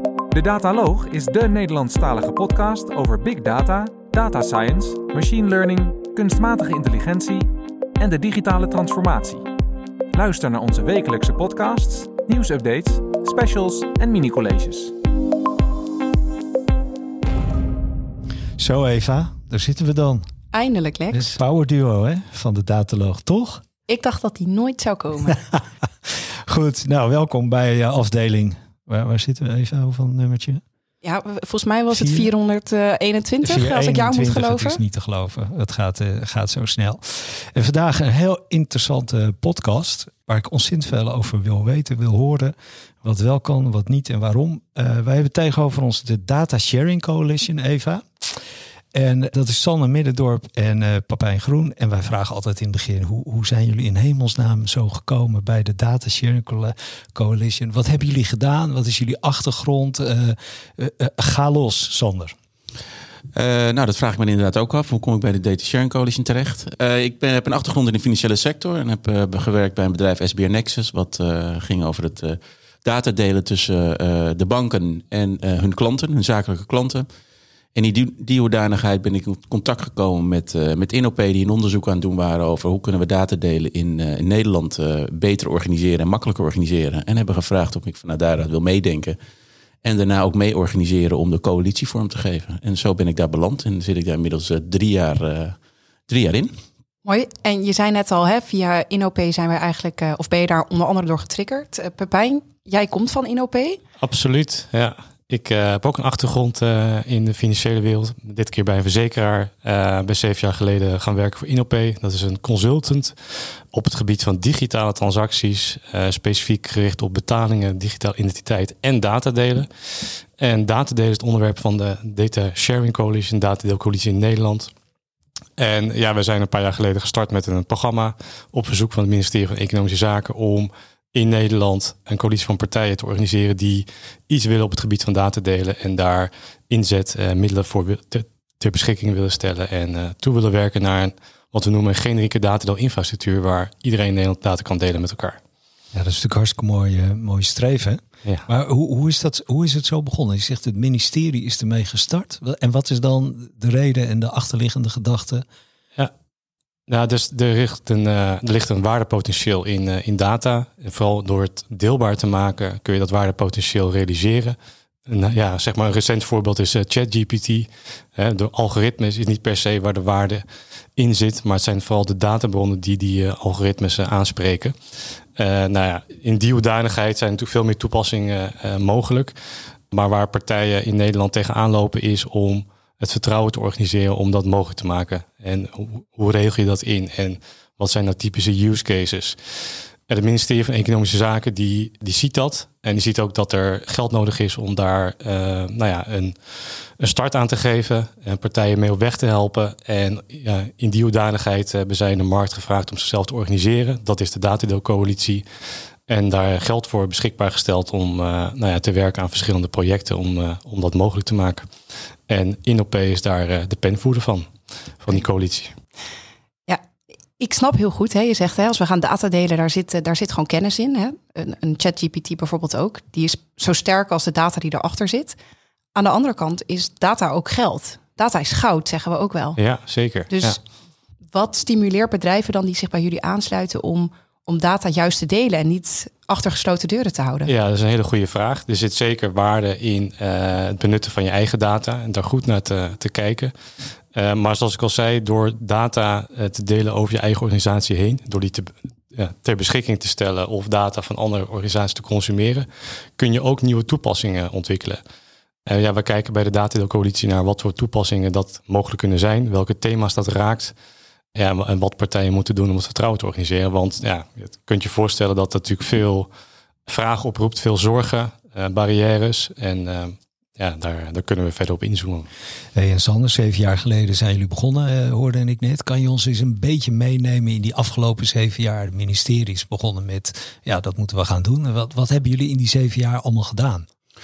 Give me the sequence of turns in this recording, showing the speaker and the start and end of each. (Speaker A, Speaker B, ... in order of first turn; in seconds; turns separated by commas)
Speaker A: 0.3-9.4, Speaker A: 10.1-14.9, Speaker B: 18.6-20.2, Speaker C: 20.5-21.4, Speaker B: 21.1-23.6, Speaker C: 23.9-25.4, Speaker B: 26.1-30.6, Speaker C: 31.0-34.8, Speaker B: 31.9-32.3, Speaker B: 33.4-48.4, Speaker B: 48.9-62.3, Speaker D: 63.3-77.1, Speaker D: 77.7-89.2, Speaker D: 89.8-95.6, Speaker D: 96.1-96.5, Speaker C: 97.0-103.8, Speaker E: 104.0-113.1, Speaker E: 113.7-124.7, Speaker E: 125.6-145.4, Speaker B: 145.9-155.4, Speaker E: 156.9-164.6, Speaker E: 165.1-170.4, Speaker E: 171.0-174.8, Speaker E: 175.4-179.3, Speaker E: 179.9-189.4, Speaker E: 190.1-205.4, Speaker E: 206.1-211.7, Speaker E: 212.3-214.5, Speaker E: 215.0-215.8, Speaker C: 217.4-225.4, Speaker C: 225.9-229.6, Speaker E: 229.6-230.6, Speaker C: 230.3-230.6, Speaker C: 231.3-237.5, Speaker E: 237.4-243.5, Speaker E: 244.1-252.7, Speaker E: 253.2-255.0, Speaker E: 255.7-260.7, Speaker E: 261.3-266.3, Speaker E: 266.9-272.3, Speaker B: 272.8-283.9